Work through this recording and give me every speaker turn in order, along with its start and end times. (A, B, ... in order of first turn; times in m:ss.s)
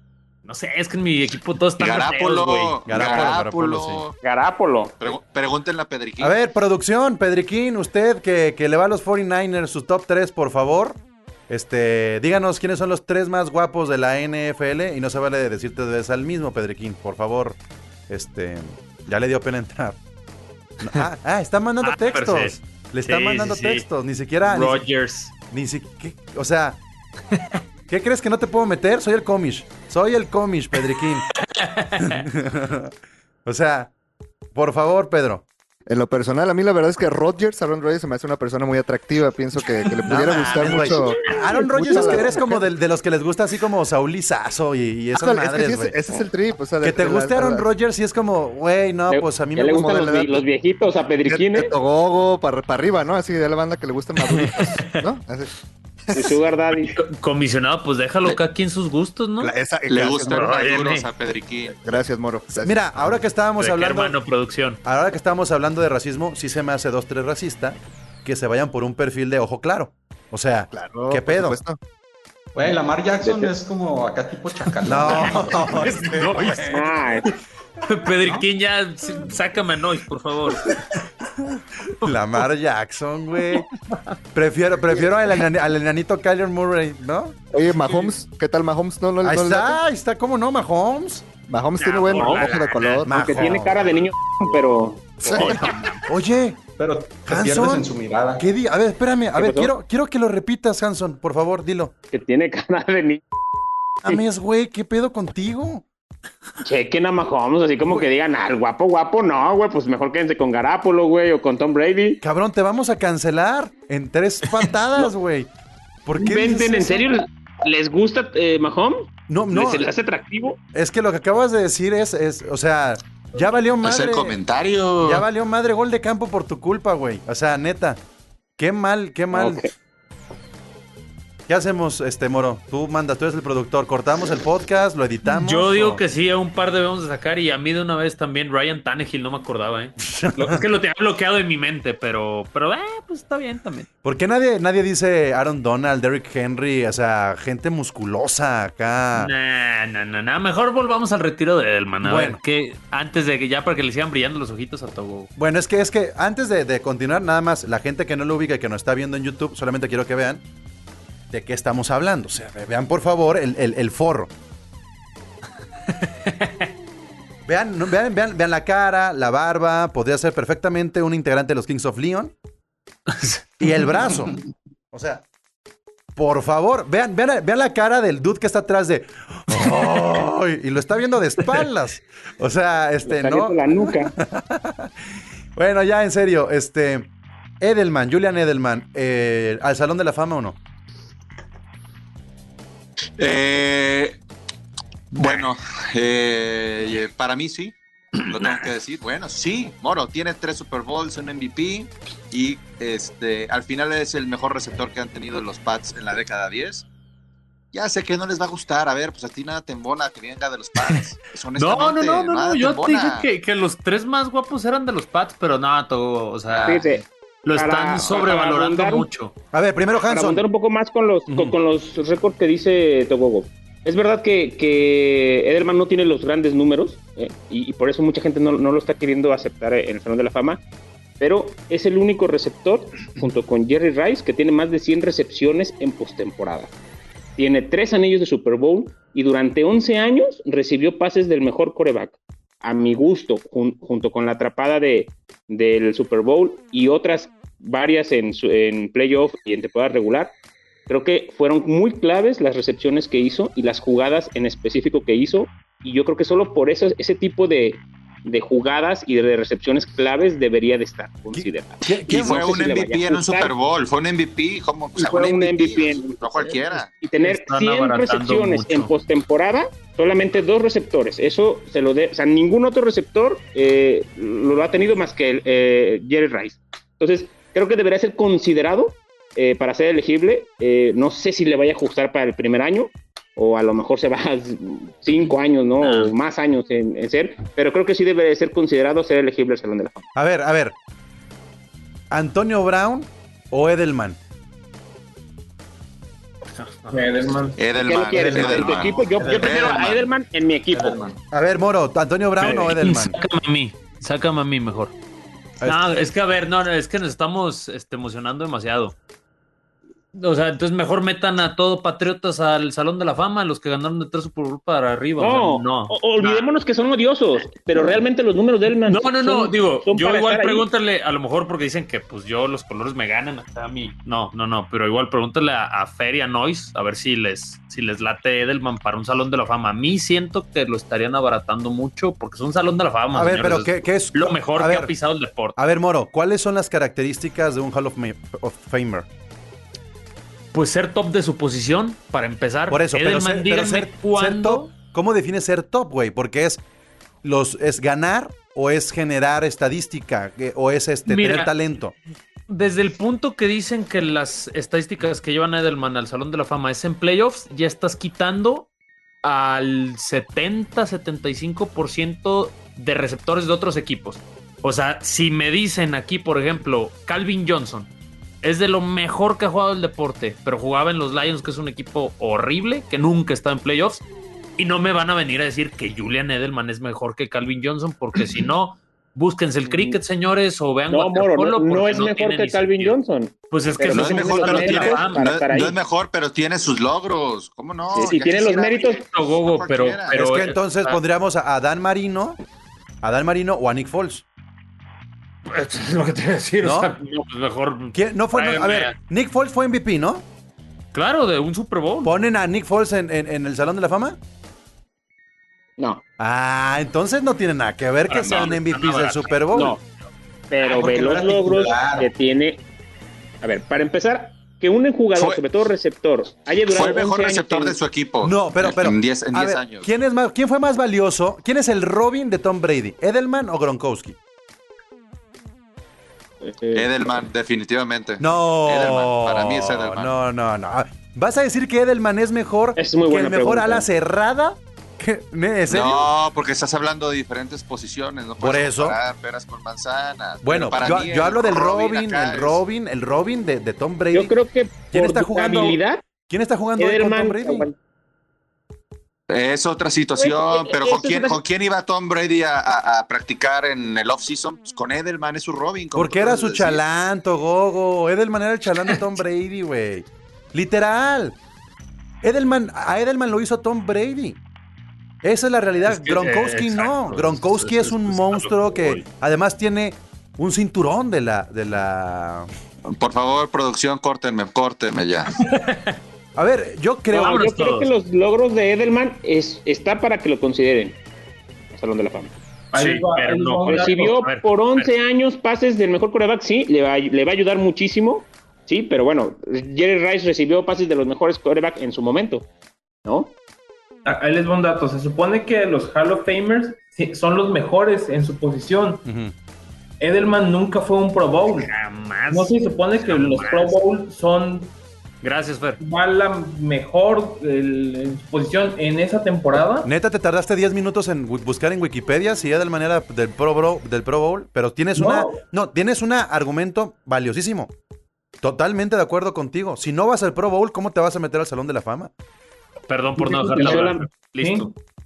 0:00.4-0:02.8 A
0:01.8-0:04.2 B
0:02.8-0:04.0 C
0:02.9-0:03.4 D
0:04.2-0:05.1 D
0:05.0-0:06.4 B
0:06.2-0:17.6 C
0:18.1-0:20.0 C
0:20.8-0:24.9 C
0:21.8-0:23.8 A
0:24.4-0:25.3 A
0:25.5-0:26.8 C
0:27.3-0:27.6 A
0:27.9-0:31.3 C
0:31.4-0:32.2 A
0:32.0-0:32.9 C
0:33.4-0:33.9 C
0:34.5-0:35.4 C
0:35.9-0:42.7 E
0:39.6-0:42.3 A
0:40.0-0:46.0 C
0:45.1-0:47.7 E
0:46.8-0:50.2 C
0:49.1-0:51.7 D
0:49.7-0:50.4 E
0:51.2-0:55.5 E
0:54.2-0:54.9 A
0:56.1-0:56.4 E
0:56.2-0:57.0 D
0:56.9-0:59.5 A
0:59.4-1:00.4 E
0:59.9-1:01.8 B
1:00.2-1:01.1 A
1:01.7-1:03.2 E
1:02.5-1:04.2 C
1:03.6-1:04.8 A
1:04.8-1:11.6 C
1:10.7-1:11.8 E
1:12.5-1:16.1 F
1:13.2-1:13.5 D
1:14.8-1:16.6 C
1:16.0-1:17.3 A
1:16.7-1:17.3 D
1:17.8-1:21.0 A
1:21.8-1:22.4 A
1:22.0-1:23.7 C
1:23.5-1:24.0 A
1:24.3-1:27.4 C
1:27.5-1:29.8 E
1:27.8-1:28.1 A
1:29.2-1:31.2 C
1:31.5-1:33.6 E
1:31.8-1:33.0 A
1:32.1-1:32.5 D
1:33.0-1:35.6 D
1:33.1-1:33.8 C
1:35.2-1:35.7 E
1:35.4-1:36.0 A
1:36.1-1:36.6 C
1:36.8-1:38.4 F
1:37.2-1:41.9 C
1:39.4-1:39.7 D
1:42.1-1:43.2 D
1:44.0-1:45.8 C
1:46.6-1:52.2 D
1:52.2-1:55.5 C
1:56.0-1:57.1 C
1:56.2-2:00.6 D
1:59.3-1:59.9 C
2:00.7-2:04.4 C
2:03.8-2:05.2 B
2:05.0-2:08.0 C
2:08.6-2:09.7 C
2:09.3-2:09.7 D
2:11.5-2:16.0 C
2:15.2-2:23.9 A
2:20.0-2:20.6 C
2:24.0-2:29.3 C
2:29.1-2:35.3 A
2:32.0-2:32.4 C
2:35.4-2:40.4 C
2:41.3-2:44.3 C
2:45.9-2:46.7 A
2:47.4-2:52.3 C
2:53.1-2:53.8 A
2:53.6-2:54.4 C
2:54.9-2:55.2 C
2:56.2-3:04.9 C
3:03.0-3:04.1 D
3:05.6-3:10.6 C
3:13.2-3:14.2 B
3:15.1-3:26.8 B
3:27.7-3:33.3 B
3:31.5-3:39.3 A
3:36.5-3:36.9 B
3:36.6-3:39.0 D
3:39.5-3:40.4 C
3:40.0-3:50.6 D
3:41.3-3:41.6 C
3:51.2-3:56.7 D
3:57.4-4:10.3 D
4:10.9-4:23.5 D
4:21.3-4:22.6 C
4:22.0-4:26.9 B
4:25.0-4:50.0 D
4:27.2-4:28.9 A
4:45.2-4:46.1 A
4:50.1-4:50.7 C
4:52.1-4:54.2 C
4:56.8-4:57.5 A
4:56.9-4:57.7 G
4:57.6-5:00.0 B
4:57.8-5:01.0 D
4:58.1-4:59.8 F
5:00.7-5:01.2 F
5:01.3-5:03.2 C
5:02.4-5:04.9 A
5:05.6-5:06.0 C
5:05.6-5:09.0 A
5:10.1-5:16.5 A
5:15.2-5:20.6 D
5:18.8-5:35.6 A
5:33.1-5:34.9 C
5:35.6-5:39.1 C
5:40.5-5:44.7 A
5:42.7-5:46.6 C
5:47.2-5:51.9 C
5:51.0-5:51.5 A
5:52.5-5:58.7 A
5:59.2-6:07.9 A
6:08.4-6:14.0 A
6:14.6-6:23.0 A
6:19.6-6:20.0 D
6:20.9-6:25.8 D
6:23.5-6:25.2 A
6:23.9-6:30.1 B
6:27.9-6:29.0 D
6:29.0-6:31.0 A
6:30.1-6:32.4 C
6:33.0-6:34.2 C
6:35.5-6:39.0 A
6:36.6-6:36.9 C
6:37.9-6:40.2 C
6:40.9-6:42.1 A
6:42.0-6:44.2 C
6:46.2-6:49.8 C
6:48.1-6:49.3 A
6:48.2-6:48.5 B
6:49.5-6:49.8 D
6:50.5-6:52.6 D
6:50.6-6:52.1 F
6:53.4-6:57.8 D
6:55.1-6:55.4 B
6:56.6-6:59.9 B
6:58.2-7:04.2 C
7:06.4-7:07.2 D
7:06.7-7:10.1 B
7:08.2-7:16.1 C
7:12.8-7:13.9 D
7:15.7-7:22.6 B
7:18.4-7:19.0 C
7:20.4-7:24.3 C
7:24.1-7:26.0 D
7:24.9-7:27.7 C
7:26.8-7:27.8 D
7:29.3-7:36.8 B
7:30.2-7:31.4 D
7:35.9-7:41.4 C
7:42.2-7:44.4 C
7:45.2-7:52.5 C
7:45.8-7:49.0 A
7:52.9-7:55.3 B
7:55.4-7:56.0 A
7:56.4-7:57.4 C
7:57.1-8:01.0 D
7:57.2-7:57.9 A
8:01.7-8:02.3 D
8:02.7-8:04.2 G
8:02.7-8:04.9 A
8:03.7-8:12.5 D
8:13.0-8:13.3 D
8:14.0-8:19.0 G
8:19.0-8:19.3 C
8:20.0-8:21.7 G
8:21.5-8:23.8 A
8:22.3-8:24.7 G
8:25.2-8:25.8 A
8:25.8-8:29.9 G
8:29.8-8:37.7 C
8:34.9-8:35.4 G
8:38.4-8:42.1 C
8:42.9-8:44.7 A
8:43.2-8:44.7 G
8:43.6-8:44.0 D